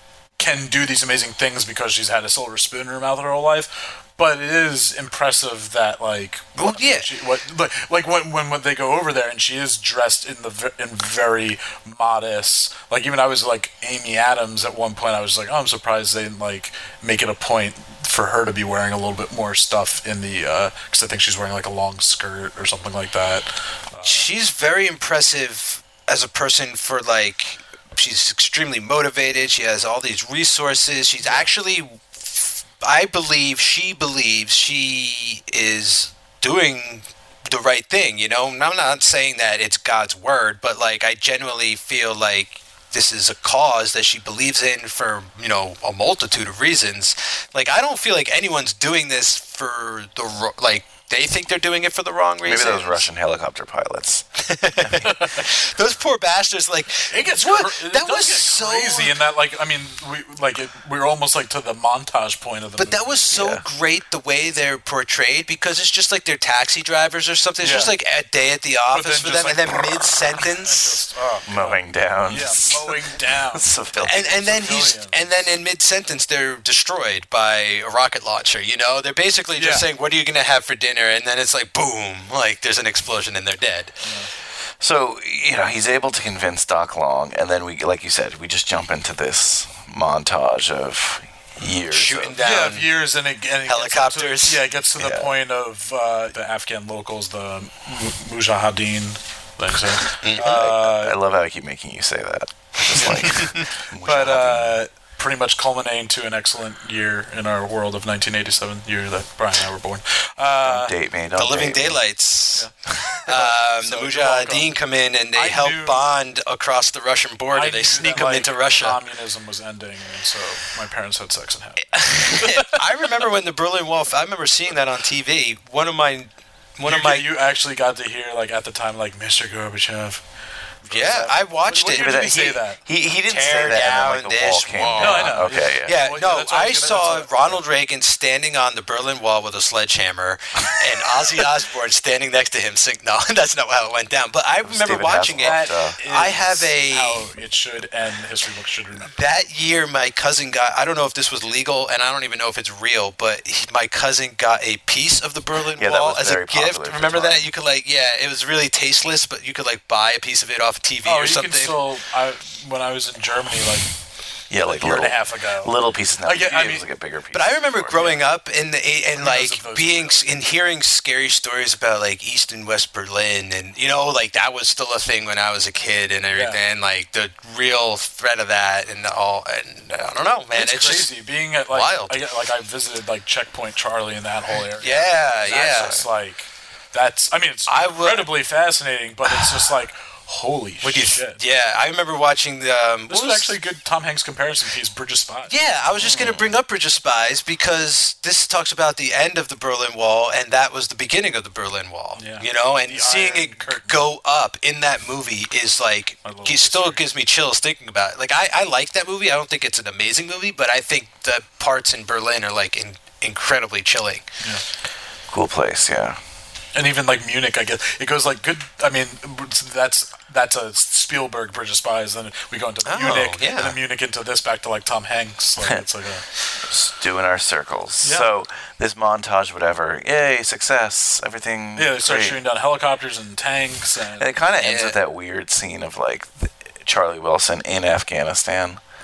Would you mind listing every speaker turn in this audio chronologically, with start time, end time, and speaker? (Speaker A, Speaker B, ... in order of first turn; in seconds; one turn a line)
Speaker A: 0.4-24.3
Speaker B: 6.6-7.1
Speaker B: 24.0-53.1
Speaker A: 31.2-31.5
Speaker C: 52.4-54.2
Speaker B: 54.4-59.2
Speaker A: 55.0-55.4
Speaker A: 57.1-63.3
Speaker B: 62.8-71.0
Speaker C: 63.3-63.6
Speaker A: 67.6-67.9
Speaker A: 68.9-75.5
Speaker C: 71.5-74.5
Speaker B: 74.0-84.0
Speaker A: 79.6-79.8
Speaker A: 84.0-84.3
Speaker C: 84.8-92.4
Speaker B: 91.9-92.9
Speaker A: 92.4-101.2
Speaker B: 93.7-94.6
Speaker C: 95.0-95.3
Speaker B: 100.2-100.5
Speaker C: 100.3-104.8
Speaker B: 103.0-103.7
Speaker A: 104.0-110.9
Speaker C: 110.6-112.0
Speaker B: 111.3-112.7
Speaker A: 112.5-114.7
Speaker B: 113.3-119.0
Speaker A: 115.3-116.0
Speaker A: 117.5-122.8
Speaker B: 121.9-127.3
Speaker A: 126.8-130.2
Speaker A: 130.8-132.8
Speaker B: 130.9-132.6
Speaker C: 131.9-136.0
Speaker B: 133.2-147.3
Speaker A: 135.0-137.6
Speaker C: 144.6-146.0
Speaker A: 145.4-149.1
Speaker B: 149.1-161.8
Speaker C: 155.8-157.5
Speaker A: 161.0-163.9
Speaker C: 164.5-168.2
Speaker A: 164.6-166.8
Speaker B: 167.3-181.2
Speaker A: 169.2-170.2
Speaker A: 176.3-176.6
Speaker A: 180.6-191.4
Speaker B: 181.7-182.2
Speaker B: 184.8-186.0
Speaker C: 185.5-186.1
Speaker B: 187.7-188.3
Speaker B: 189.3-189.7
Speaker B: 190.8-193.6
Speaker A: 193.1-195.6
Speaker B: 195.5-214.3
Speaker C: 196.0-196.6
Speaker A: 202.2-204.0
Speaker A: 206.2-207.0
Speaker C: 215.3-216.2
Speaker A: 216.8-226.2
Speaker B: 222.8-223.8
Speaker C: 226.6-232.4
Speaker A: 228.0-228.3
Speaker A: 231.8-234.3
Speaker C: 234.2-238.8
Speaker B: 234.6-235.0